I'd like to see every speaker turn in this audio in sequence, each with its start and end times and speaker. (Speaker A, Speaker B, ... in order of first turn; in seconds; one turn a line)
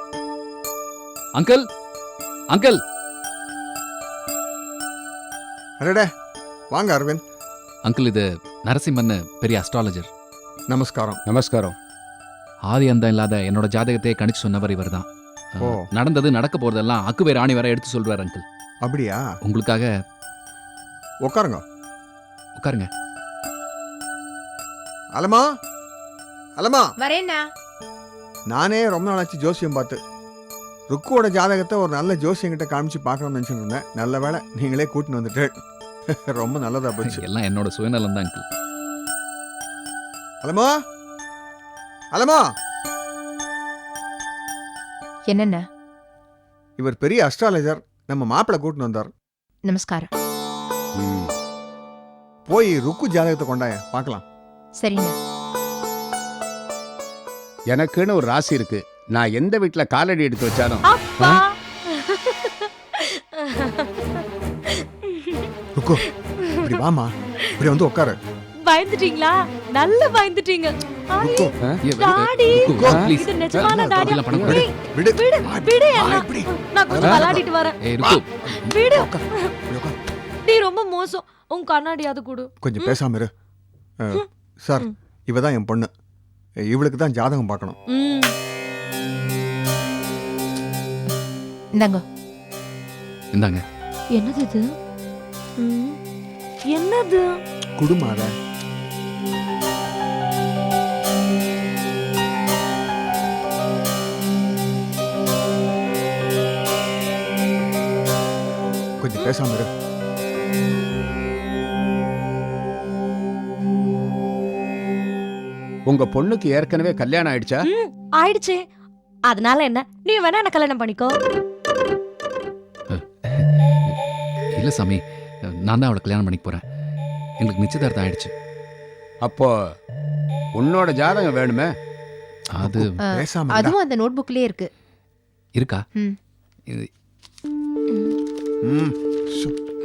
Speaker A: 1.3-1.6
Speaker A: 2.5-2.8
Speaker B: 5.8-6.1
Speaker B: 6.7-7.2
Speaker A: 7.8-10.1
Speaker B: 10.7-11.2
Speaker C: 11.2-11.7
Speaker A: 12.6-18.4
Speaker B: 18.8-19.2
Speaker A: 19.4-19.9
Speaker B: 21.2-21.6
Speaker A: 22.6-22.9
Speaker B: 25.1-25.4
Speaker B: 26.6-26.9
Speaker D: 27.0-27.5
Speaker B: 28.5-30.0
Speaker B: 30.9-35.5
Speaker B: 36.3-37.2
Speaker A: 37.0-38.4
Speaker B: 40.4-40.7
Speaker B: 42.1-42.4
Speaker D: 45.3-45.6
Speaker B: 46.8-49.1
Speaker D: 49.6-50.1
Speaker C: 51.0-51.3
Speaker B: 52.5-54.2
Speaker D: 54.8-55.1
Speaker C: 57.7-61.4
Speaker E: 60.9-64.2
Speaker E: 65.0-65.5
Speaker B: 65.8-66.0
Speaker B: 66.6-68.2
Speaker E: 68.6-77.8
Speaker B: 71.2-71.5
Speaker A: 71.8-73.2
Speaker B: 72.8-73.0
Speaker C: 72.8-74.5
Speaker B: 73.6-77.5
Speaker A: 74.0-74.6
Speaker A: 77.0-78.5
Speaker B: 78.0-78.2
Speaker E: 78.4-79.5
Speaker B: 78.9-80.0
Speaker E: 80.5-83.0
Speaker B: 82.6-83.3
Speaker B: 84.0-85.9
Speaker B: 86.7-87.8
Speaker E: 87.9-88.3
Speaker D: 91.8-92.0
Speaker A: 93.3-93.6
Speaker E: 94.1-94.6
Speaker E: 95.6-96.0
Speaker E: 96.7-97.2
Speaker B: 97.8-98.3
Speaker B: 109.0-109.7
Speaker C: 115.9-117.5
Speaker E: 117.7-118.6
Speaker E: 119.3-121.1
Speaker A: 122.9-123.9
Speaker A: 124.5-126.6
Speaker A: 127.4-128.3
Speaker C: 129.2-129.5
Speaker C: 130.6-131.7
Speaker A: 132.5-132.9
Speaker B: 132.6-133.8
Speaker D: 133.0-134.7
Speaker A: 135.6-135.8
Speaker B: 138.6-139.5